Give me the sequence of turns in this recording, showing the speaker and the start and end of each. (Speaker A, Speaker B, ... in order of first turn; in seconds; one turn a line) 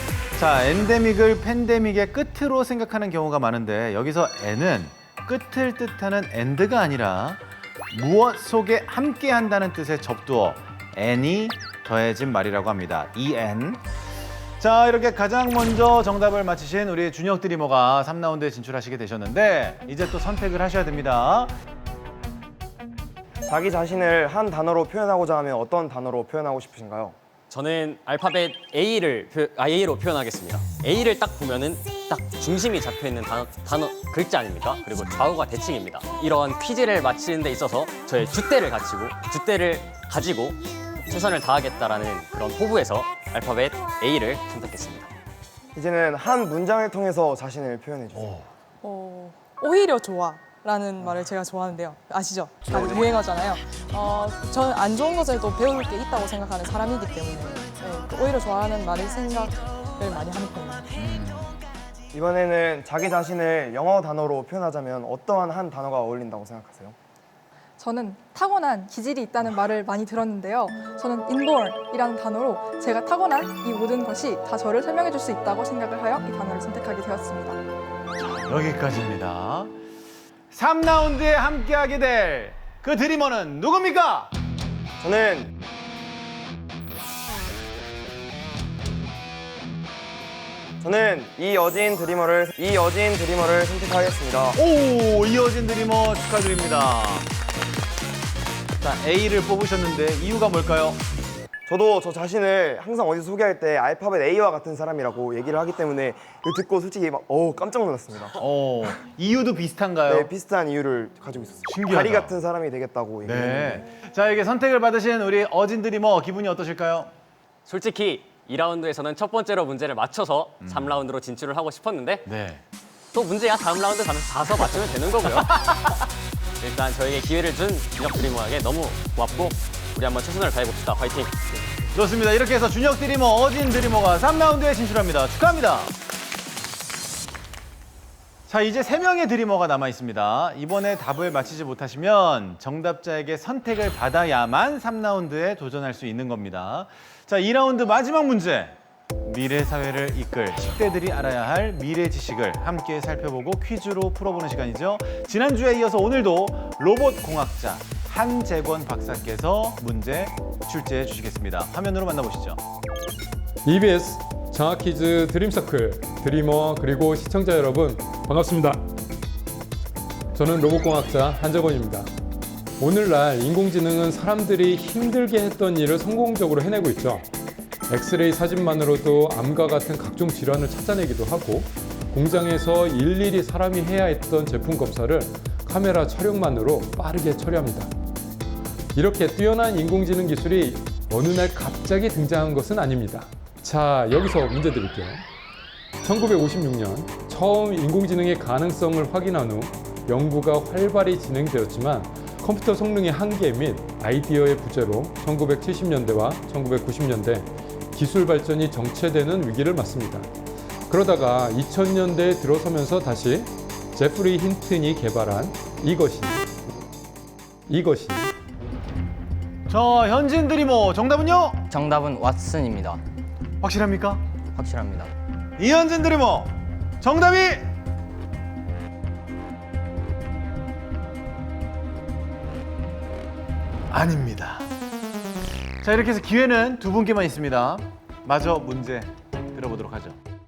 Speaker A: 0.3-13.8
Speaker A: 14.6-21.5
Speaker B: 23.4-27.1
Speaker C: 27.5-45.1
Speaker B: 45.7-48.4
Speaker D: 48.8-60.8
Speaker A: 61.0-61.5
Speaker B: 62.1-66.9
Speaker E: 67.8-77.6
Speaker A: 78.2-79.7
Speaker A: 80.5-84.3
Speaker B: 85.0-85.5
Speaker B: 90.8-94.6
Speaker A: 94.5-97.3
Speaker A: 98.8-101.0
Speaker B: 101.7-108.4
Speaker A: 108.4-110.3
Speaker B: 110.1-113.8
Speaker A: 111.7-112.3
Speaker A: 113.2-117.1
Speaker C: 117.7-122.2
Speaker A: 120.6-121.1
Speaker A: 122.2-122.6
Speaker C: 123.1-125.6
Speaker A: 124.6-125.9
Speaker C: 126.6-131.3
Speaker A: 131.9-135.9
Speaker A: 138.5-162.6
Speaker F: 163.6-168.8
Speaker F: 170.3-172.1
Speaker F: 172.8-177.3
Speaker F: 177.9-187.9
Speaker F: 188.9-195.2
Speaker F: 196.0-210.3
Speaker F: 210.9-216.5
Speaker F: 217.7-218.3
Speaker A: 219.7-221.6
Speaker G: 221.7-223.0
Speaker A: 223.6-224.2
Speaker G: 224.5-225.1
Speaker A: 225.6-227.6
Speaker A: 233.9-234.7
Speaker A: 235.8-240.2